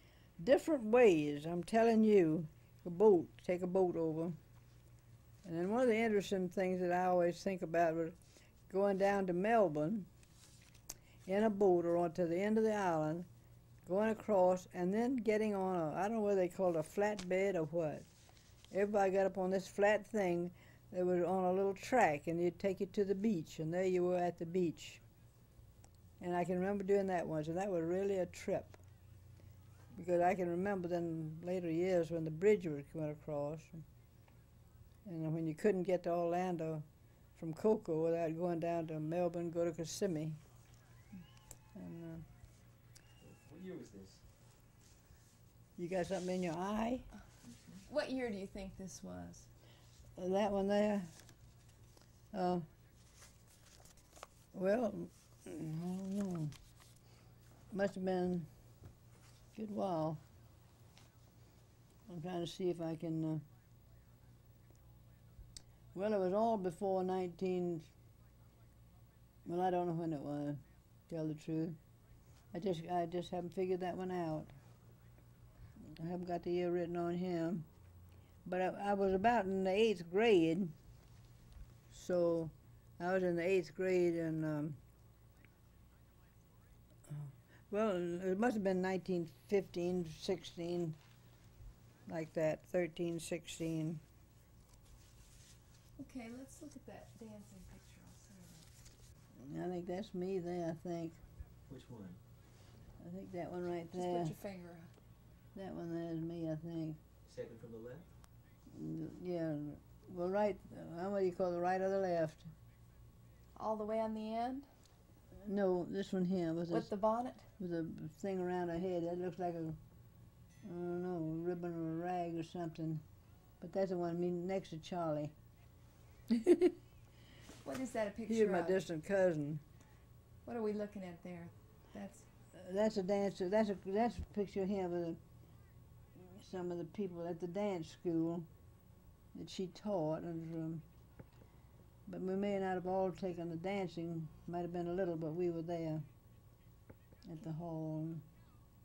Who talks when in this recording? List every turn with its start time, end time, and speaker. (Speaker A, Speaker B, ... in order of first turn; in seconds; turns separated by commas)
Speaker A: 0.4-4.4, Speaker A: 5.4-8.2, Speaker A: 8.7-10.1, Speaker A: 11.3-13.3, Speaker A: 13.8-18.1, Speaker A: 18.7-25.0, Speaker A: 26.2-28.8, Speaker A: 29.9-33.9, Speaker A: 35.0-40.4, Speaker A: 41.8-42.3, Speaker B: 43.2-44.2, Speaker A: 45.8-47.1, Speaker C: 47.9-49.5, Speaker A: 50.2-51.1, Speaker A: 52.3-52.7, Speaker A: 54.5-56.5, Speaker A: 57.7-58.5, Speaker A: 59.5-60.2, Speaker A: 62.1-63.5, Speaker A: 65.9-67.9, Speaker A: 69.5-71.8, Speaker A: 72.5-74.5, Speaker A: 75.8-77.7, Speaker A: 78.5-80.8, Speaker A: 81.9-84.8, Speaker A: 87.1-91.0, Speaker A: 92.1-94.0, Speaker C: 96.0-98.7, Speaker A: 99.4-101.2, Speaker B: 101.7-102.2, Speaker A: 103.0-104.3, Speaker C: 103.9-104.9, Speaker A: 105.5-107.0, Speaker B: 107.2-108.1, Speaker A: 108.7-112.5, Speaker C: 113.6-114.7, Speaker A: 115.3-116.9, Speaker C: 116.7-117.5, Speaker A: 117.6-119.8, Speaker A: 120.6-123.0, Speaker A: 123.6-125.3, Speaker A: 126.3-126.8, Speaker C: 127.6-128.8, Speaker A: 128.3-129.6, Speaker C: 130.4-132.3, Speaker A: 132.5-135.2, Speaker A: 136.2-138.5, Speaker A: 139.3-140.8, Speaker A: 142.1-146.0, Speaker A: 147.2-148.3